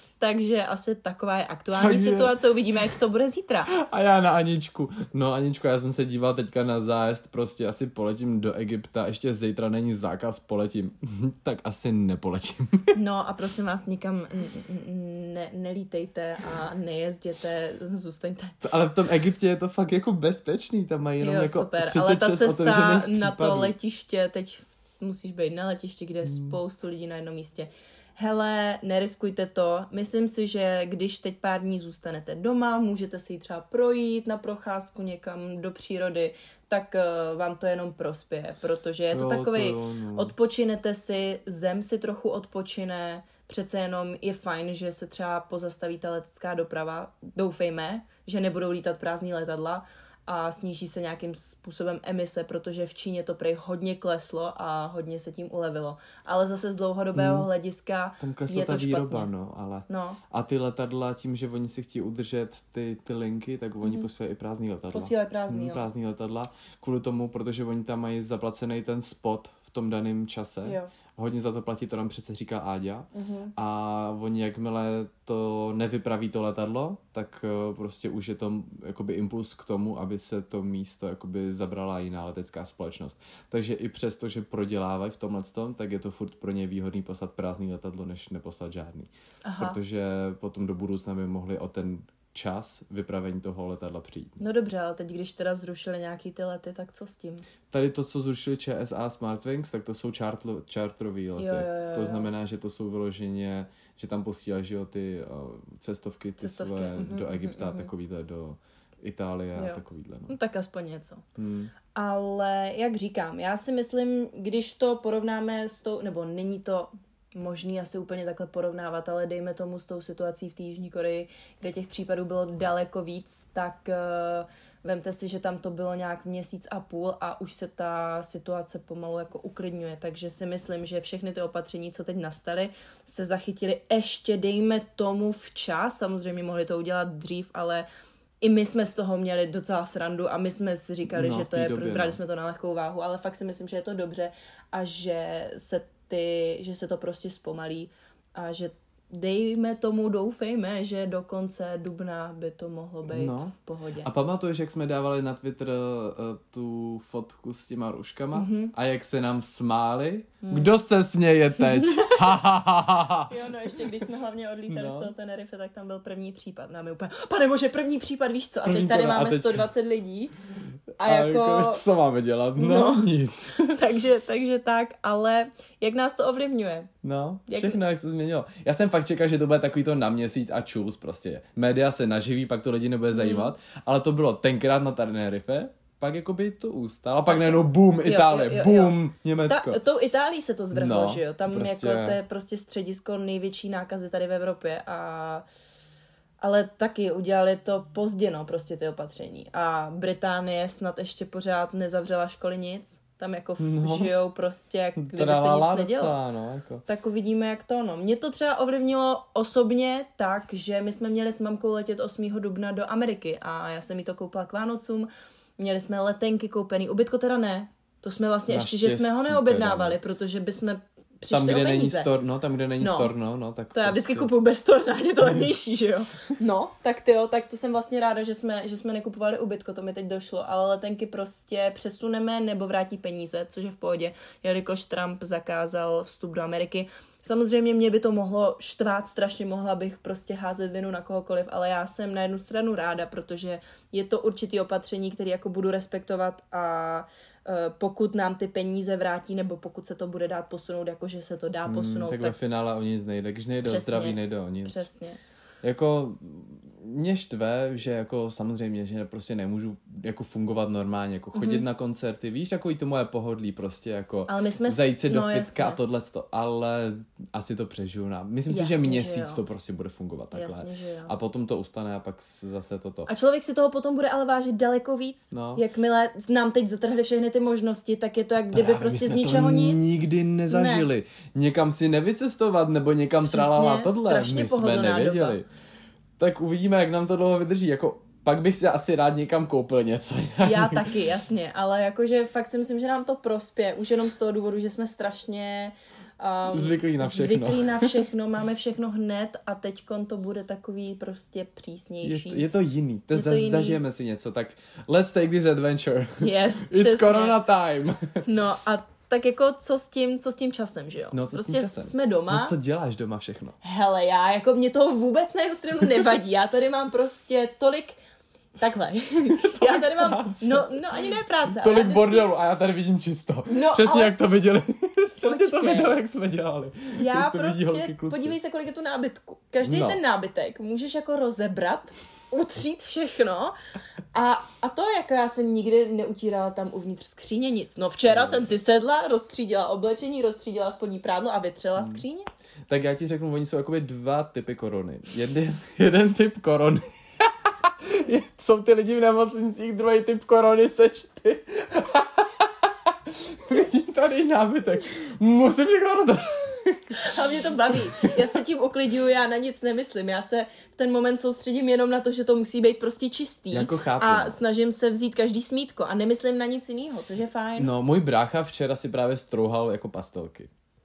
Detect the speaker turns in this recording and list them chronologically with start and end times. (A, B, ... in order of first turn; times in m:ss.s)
0:00.2-0:03.7 A
0:01.7-0:02.4 B
0:03.7-0:12.9 B
0:12.9-0:18.6 A
0:18.6-0:23.7 B
0:21.2-0:59.3 A
0:26.2-0:26.6 B
0:39.1-0:40.3 B
0:57.1-0:57.5 B
0:58.2-1:34.4 B
0:59.9-1:00.2 A
1:04.9-1:05.8 A
1:10.6-1:10.9 A
1:13.1-1:13.5 A
1:29.4-1:29.8 A
1:34.4-1:37.4 A
1:37.7-1:50.3 B
1:41.4-1:42.3 A
1:46.4-1:47.9 A
1:49.6-1:51.2 A
1:51.4-1:51.7 B
1:51.9-2:17.8 A
2:18.4-2:34.1 A
2:21.0-2:22.2 B
2:33.1-2:33.5 B
2:34.0-2:43.8 B
2:38.3-2:38.7 A
2:40.4-2:40.7 A
2:41.6-2:42.2 A
2:43.3-2:50.3 A
2:44.7-2:45.1 B
2:48.6-2:49.6 B
2:51.0-2:51.8 A
2:51.0-2:53.7 B
2:52.6-2:56.9 A
2:57.0-3:09.8 B
2:57.5-2:57.8 A
3:03.1-3:03.5 A
3:07.3-3:15.4 A
3:10.7-3:12.2 B
3:16.4-3:26.2 A
3:23.6-3:24.1 B
3:25.0-3:26.8 B
3:26.8-3:42.1 A
3:38.5-3:40.0 B
3:41.3-3:44.3 B
3:42.8-3:43.1 A
3:43.7-4:12.4 A
4:11.7-4:14.8 B
4:13.6-4:15.2 A
4:15.6-4:33.1 B
4:21.3-4:21.6 A
4:24.3-4:25.8 A
4:28.5-4:29.4 A
4:30.3-4:31.1 A
4:33.1-4:39.8 A
4:35.3-4:35.6 B
4:38.5-4:45.5 B
4:40.5-4:40.9 A
4:43.2-4:45.4 A
4:46.2-4:50.8 B
4:50.4-5:02.4 A
4:56.5-4:58.0 B
5:02.0-5:08.2 B
5:03.1-5:03.8 A
5:06.2-5:07.4 A
5:08.2-5:12.5 A
5:11.1-5:13.6 B
5:13.6-5:18.0 A
5:18.6-5:22.3 A
5:19.4-5:20.7 B
5:21.5-5:28.4 B
5:23.5-5:24.1 A
5:25.2-5:26.0 A
5:26.9-5:33.5 A
5:29.6-5:30.0 B
5:34.1-5:42.3 A
5:38.1-5:38.5 B
5:41.8-5:42.0 B
5:42.7-5:57.1 B
5:56.9-6:07.7 A
5:57.7-5:58.2 B
6:03.5-6:04.4 B
6:07.6-6:10.5 B